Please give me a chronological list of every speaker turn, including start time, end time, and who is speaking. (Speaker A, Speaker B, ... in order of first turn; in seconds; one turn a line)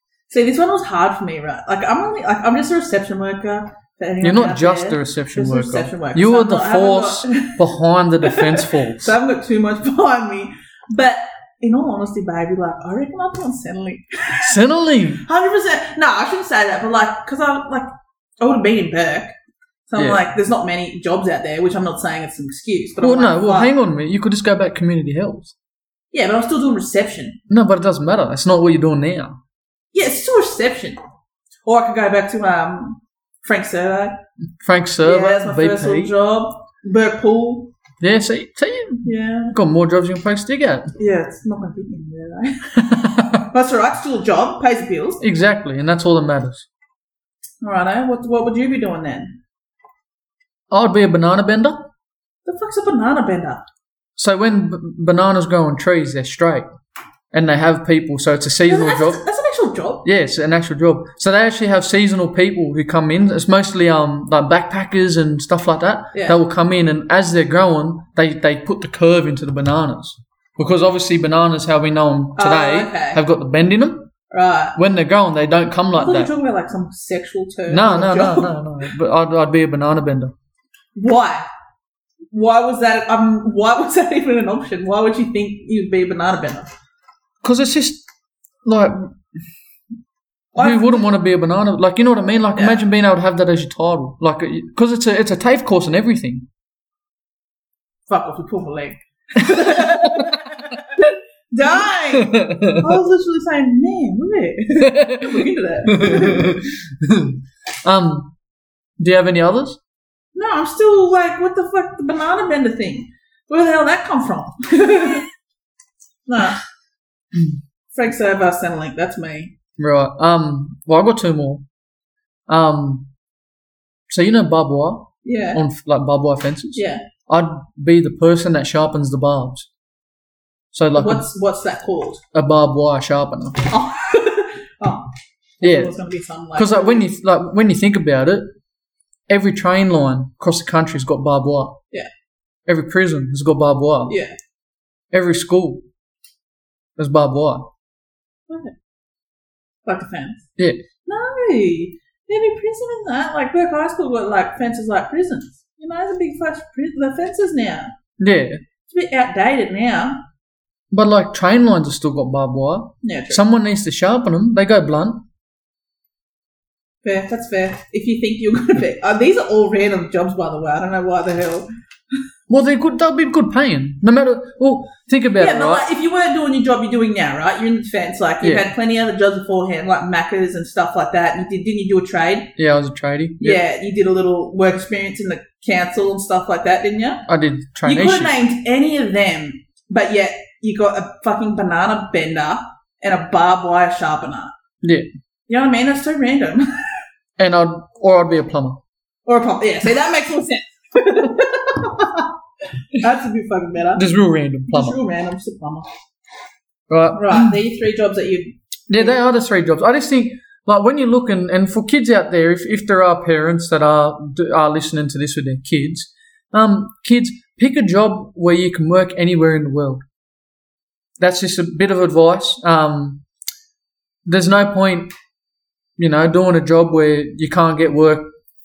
Speaker A: 0.3-7.6
Speaker B: 4.2-9.1
Speaker A: 8.2-14.6
Speaker B: 14.4-15.2
Speaker A: 15.1-17.9
Speaker A: 18.4-19.3
Speaker A: 19.9-23.7
Speaker B: 20.0-20.2
Speaker B: 23.0-25.5
Speaker A: 26.1-27.4
Speaker B: 27.5-29.4
Speaker A: 29.9-31.0
Speaker A: 31.6-34.2
Speaker B: 34.6-36.1
Speaker A: 35.0-37.7
Speaker B: 38.0-40.9
Speaker A: 39.0-39.5
Speaker A: 41.0-45.2
Speaker B: 42.8-43.4
Speaker B: 45.2-46.7
Speaker A: 47.6-49.4
Speaker B: 50.7-51.9
Speaker A: 52.4-53.6
Speaker B: 54.1-56.7
Speaker B: 57.3-59.2
Speaker A: 58.6-60.0
Speaker B: 60.0-74.1
Speaker A: 66.1-66.4
Speaker A: 72.3-73.2
Speaker A: 74.3-74.8
Speaker B: 74.8-76.3
Speaker A: 75.9-78.5
Speaker B: 77.7-80.3
Speaker A: 81.0-81.5
Speaker A: 82.3-86.7
Speaker B: 87.4-88.0
Speaker B: 88.6-89.2
Speaker A: 90.5-91.0
Speaker B: 90.5-96.5
Speaker A: 92.5-92.8
Speaker A: 98.1-106.6
Speaker B: 99.5-100.4
Speaker B: 102.1-102.9
Speaker B: 104.8-108.3
Speaker B: 109.0-109.8
Speaker A: 110.3-115.2
Speaker A: 116.3-116.6
Speaker A: 117.9-119.5
Speaker B: 119.8-121.6
Speaker B: 122.5-123.1
Speaker B: 124.1-129.7
Speaker A: 125.2-125.6
Speaker A: 126.7-127.0
Speaker B: 130.7-131.2
Speaker A: 130.9-132.2
Speaker B: 132.3-133.6
Speaker A: 133.7-135.1
Speaker B: 135.6-135.9
Speaker A: 135.6-137.0
Speaker B: 136.5-138.5
Speaker B: 139.3-141.8
Speaker B: 142.7-144.1
Speaker A: 144.1-144.3
Speaker B: 145.1-145.8
Speaker B: 147.0-147.7
Speaker A: 148.5-148.7
Speaker A: 149.8-150.4
Speaker A: 151.1-157.9
Speaker B: 158.2-158.6
Speaker A: 158.9-160.2
Speaker B: 160.9-165.2
Speaker A: 163.0-163.4
Speaker A: 167.0-171.7
Speaker B: 172.5-175.9
Speaker A: 175.4-182.5
Speaker B: 178.4-178.7
Speaker B: 182.6-183.6
Speaker A: 183.4-187.2
Speaker B: 187.3-188.3
Speaker A: 187.8-194.5
Speaker B: 194.8-195.1
Speaker A: 195.5-196.7
Speaker B: 197.4-198.8
Speaker A: 199.2-202.3
Speaker A: 202.9-204.1
Speaker B: 203.9-205.0
Speaker A: 204.7-205.9
Speaker B: 206.9-207.5
Speaker A: 207.1-209.2
Speaker B: 208.9-220.0
Speaker B: 221.2-223.2
Speaker B: 224.2-225.1
Speaker B: 226.0-228.3